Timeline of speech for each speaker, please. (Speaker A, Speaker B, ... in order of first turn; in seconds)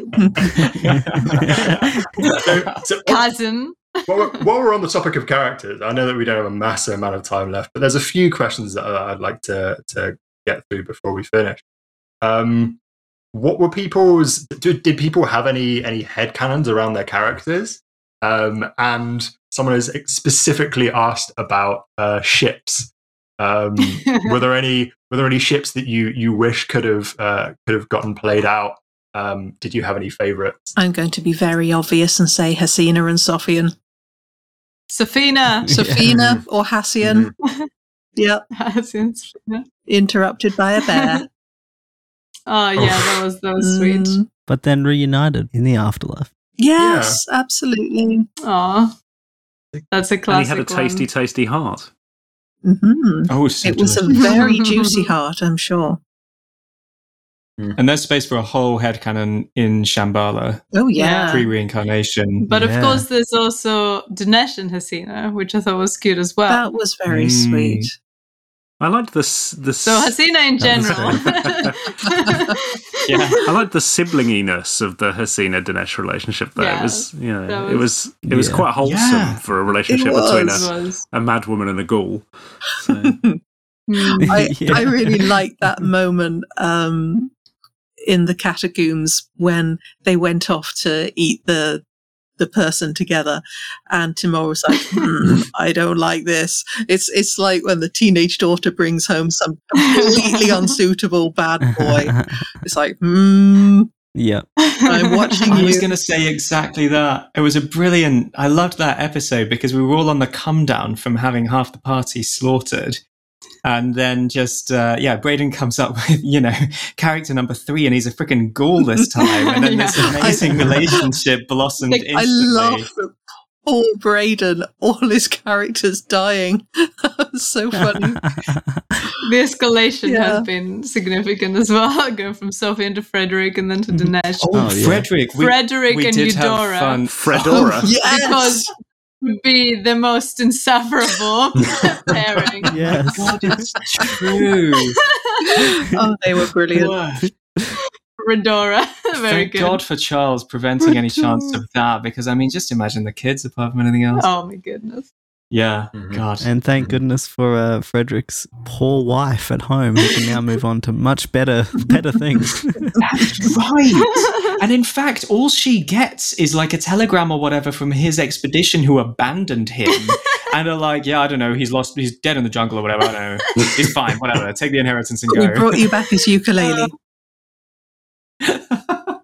Speaker A: 0.3-3.3, 4.1-11.6, 12.2-12.8, 13.3-30.7, 36.1-36.4, 37.0-37.3, 42.8-43.1, 46.8-47.2, 155.9-156.2, 173.6-173.9
Speaker B: 0.8-2.7, 53.3-54.3, 57.8-60.6, 61.3-62.5, 67.1-67.9, 73.0-73.4, 78.8-79.4, 105.5-113.0, 113.6-122.9, 134.4-137.7, 143.1-145.0, 146.7-147.3, 149.2-154.3, 155.5-156.5, 163.0-175.8, 178.4-179.1
Speaker C: 3.0-4.3, 34.9-35.7, 38.5-39.6, 40.8-41.2, 42.5-44.2, 48.4-48.9, 49.9-51.0, 54.1-55.0, 60.9-61.5, 62.4-66.6, 69.8-73.2, 76.6-77.9, 80.5-81.0, 83.9-84.3, 99.8-100.6, 104.7-105.5, 119.2-120.7, 129.2-137.0, 138.0-138.7, 139.2-142.7, 148.2-149.8, 154.2-155.1, 176.6-176.9
Speaker D: 30.8-33.7, 35.7-37.3, 38.1-38.4, 39.9-41.2, 43.6-44.3, 46.6-48.2, 52.6-56.0, 60.7-61.5, 66.5-67.9, 72.1-72.5, 79.9-80.7, 83.0-83.4, 84.3-87.3, 88.0-91.8, 92.4-103.9, 104.8-105.9, 120.1-121.0, 122.1-128.2, 130.1-130.5, 137.5-138.7, 145.9-147.0, 175.3-176.9
Speaker E: 44.5-46.3, 62.5-63.0, 70.6-71.1, 78.2-78.7, 84.2-85.4, 101.8-102.2, 104.1-104.5, 127.9-128.6, 133.9-135.1, 142.7-143.6, 151.0-151.4, 156.4-163.5
Speaker F: 50.3-51.9, 68.8-70.2, 70.8-72.1, 73.4-83.2, 137.1-137.9